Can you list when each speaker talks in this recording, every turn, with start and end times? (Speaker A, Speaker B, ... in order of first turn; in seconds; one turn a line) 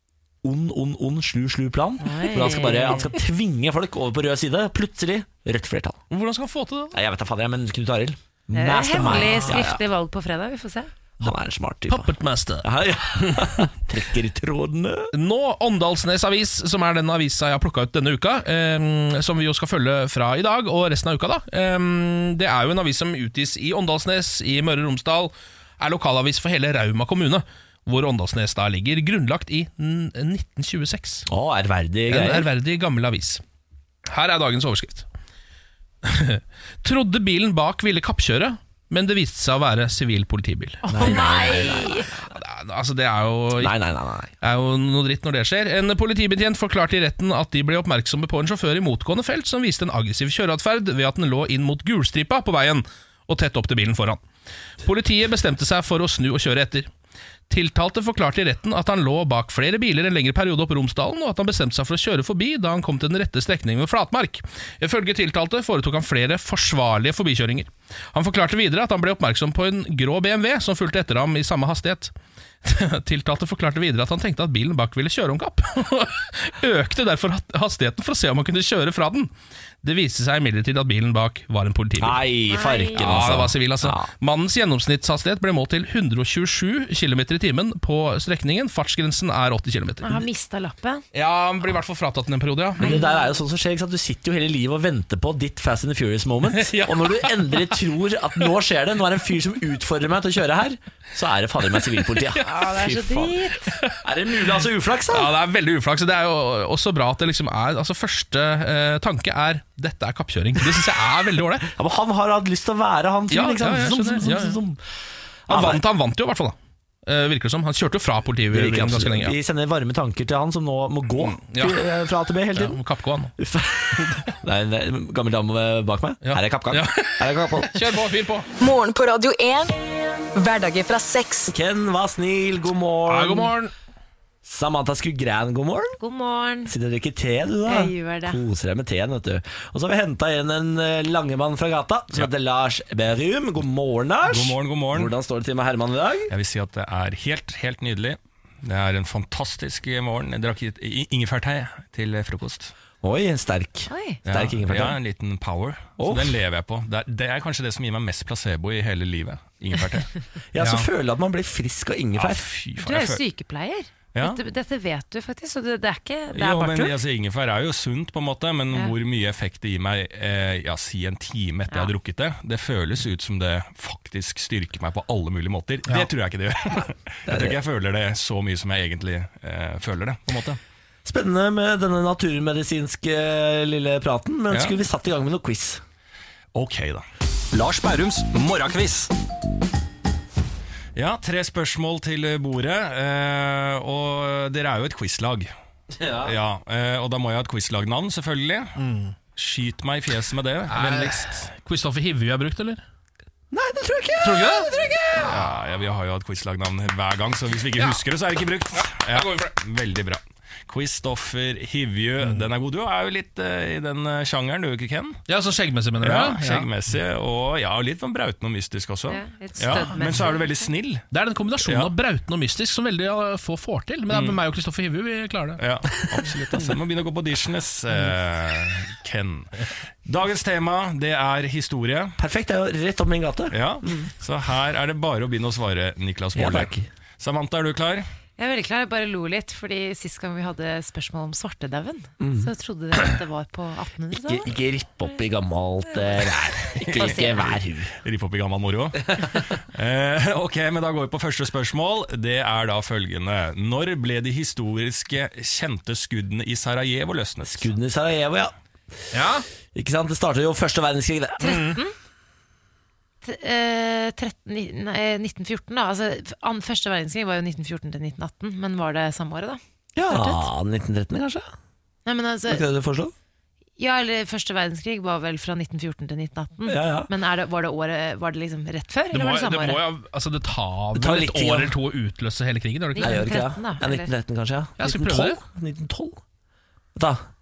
Speaker A: 0.4-6.0
Speaker B: 2.0-3.1
Speaker C: 6.1-7.0
Speaker A: 6.9-9.8
Speaker B: 8.5-10.9
Speaker C: 9.0-9.5
Speaker A: 11.2-15.1
Speaker C: 11.9-12.7
Speaker C: 15.1-31.2
Speaker A: 31.3-32.5
Speaker C: 32.1-33.4
Speaker C: 34.1-35.0
Speaker C: 36.0-41.8
Speaker B: 40.8-42.1
Speaker A: 40.9-42.0
Speaker C: 42.3-43.8
Speaker A: 43.6-44.3
Speaker C: 44.4-54.2
Speaker C: 54.8-56.9
Speaker C: 57.5-72.1
Speaker C: 72.6-79.3
Speaker C: 79.8-82.2
Speaker A: 82.0-84.1
Speaker B: 82.5-83.0
Speaker C: 83.0-90.2
Speaker B: 90.0-91.0
Speaker C: 91.1-93.0
Speaker A: 92.8-103.4
Speaker B: 92.8-93.2
Speaker C: 96.5-97.8
Speaker C: 102.1-102.4
Speaker B: 102.4-103.6
Speaker A: 104.0-105.3
Speaker C: 105.1-111.7
Speaker A: 111.7-114.8
Speaker C: 113.3-114.6
Speaker A: 115.5-115.8
Speaker C: 115.5-119.3
Speaker A: 118.5-122.8
Speaker C: 121.2-121.9
Speaker C: 122.5-123.3
Speaker A: 123.4-127.8
Speaker C: 126.2-128.5
Speaker D: 128.6-129.8
Speaker D: 130.3-131.5
Speaker A: 131.5-133.5
Speaker C: 133.1-133.7
Speaker A: 134.4-135.9
Speaker B: 136.0-136.7
Speaker A: 136.7-146.3
Speaker B: 137.7-138.4
Speaker E: 144.2-145.1
Speaker E: 146.3-152.7
Speaker A: 153.0-155.0
Speaker B: 153.9-154.2
Speaker E: 154.2-160.1
Speaker A: 156.0-156.4
Speaker A: 160.5-162.5
Speaker C: 160.6-160.9
Speaker E: 162.2-163.2
Speaker B: 162.8-167.0
Speaker E: 164.1-164.4
Speaker E: 166.3-180.6
Speaker B: 168.7-169.0
Speaker A: 177.3-177.6
Speaker A: 181.0-185.8
Speaker E: 184.5-184.8
Speaker E: 186.5-189.1
Speaker E: 190.9-195.5
Speaker A: 195.9-196.3
Speaker E: 196.2-198.7
Speaker C: 198.8-199.2
Speaker E: 199.3-201.4
Speaker C: 200.7-202.8
Speaker A: 203.5-205.2
Speaker C: 204.2-205.4
Speaker E: 205.2-215.2
Speaker C: 207.8-208.0
Speaker C: 208.7-209.5
Speaker C: 212.2-212.5
Speaker C: 215.3-216.7
Speaker E: 216.0-221.0
Speaker B: 219.1-220.7
Speaker C: 221.1-225.6
Speaker E: 221.6-221.9
Speaker E: 224.1-224.4
Speaker E: 225.6-229.5
Speaker E: 230.1-232.2
Speaker A: 232.2-233.6
Speaker E: 233.5-238.1
Speaker A: 236.3-236.9
Speaker B: 238.4-244.5
Speaker A: 242.2-242.5
Speaker A: 244.2-247.9
Speaker E: 246.9-249.2
Speaker B: 246.9-247.6
Speaker E: 249.7-257.7
Speaker A: 257.4-258.5
Speaker C: 259.1-259.4
Speaker A: 259.7-261.6
Speaker B: 261.4-261.9
Speaker C: 261.4-261.8
Speaker B: 263.2-270.5
Speaker A: 269.9-271.4
Speaker B: 272.1-272.6
Speaker A: 272.5-273.1
Speaker B: 273.8-279.8
Speaker A: 276.7-277.1
Speaker C: 279.1-283.2
Speaker A: 280.9-281.7
Speaker B: 282.9-284.1
Speaker A: 283.0-286.2
Speaker C: 284.8-285.4
Speaker A: 286.9-287.2